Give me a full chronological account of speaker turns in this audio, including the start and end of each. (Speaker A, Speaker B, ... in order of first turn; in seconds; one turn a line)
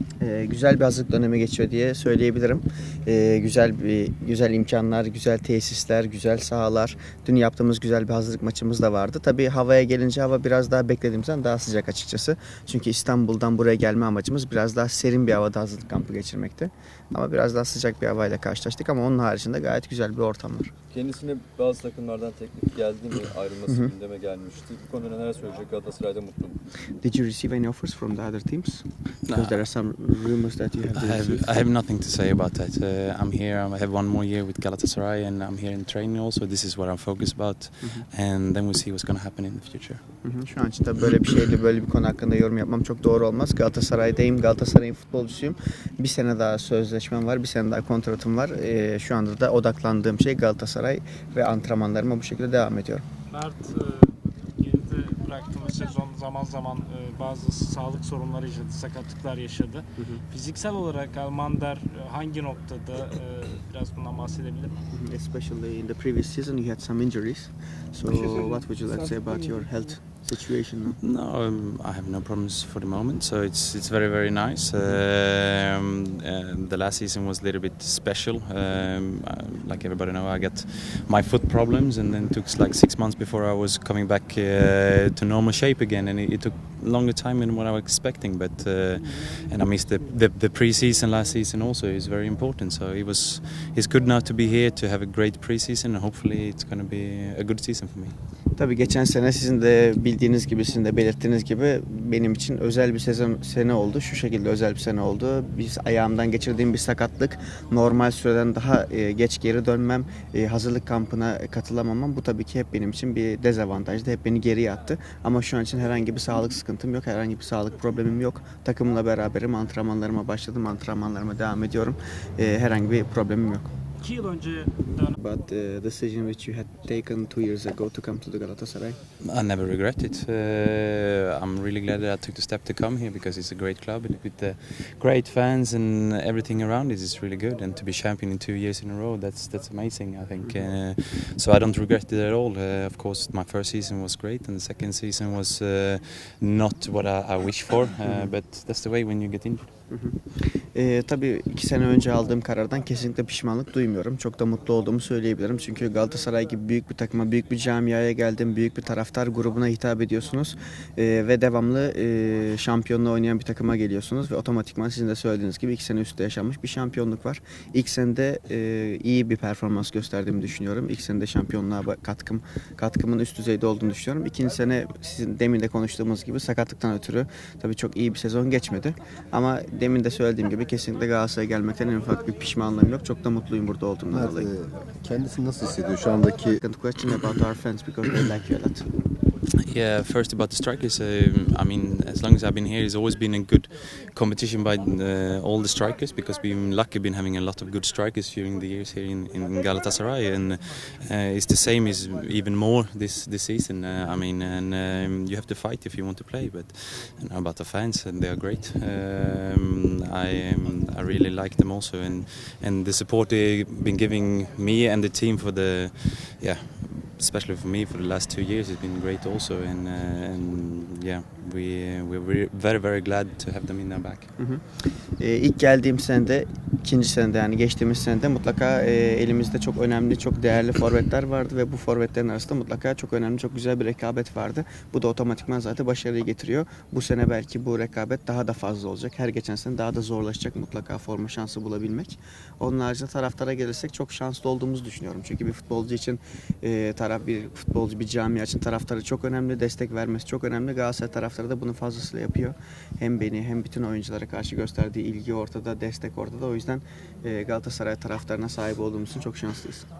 Speaker A: 0.2-20.7
Speaker B: 20.9-26.6
Speaker A: 23.7-23.9
Speaker A: 27.0-31.5
Speaker C: 29.3-29.6
Speaker C: 30.9-40.0
Speaker A: 40.2-53.0
Speaker D: 53.3-64.7
Speaker A: 60.0-60.2
Speaker A: 64.9-71.0
Speaker C: 71.0-98.1
Speaker A: 98.6-123.7
Speaker D: 124.0-125.2
Speaker A: 125.2-129.0
Speaker C: 129.2-149.7
Speaker A: 148.1-148.3
Speaker A: 149.9-150.2
Speaker A: 150.7-184.5
Speaker E: 184.1-186.6
Speaker A: 186.6-188.9
Speaker C: 189.6-224.3
Speaker A: 224.4-224.6
Speaker A: 225.2-259.9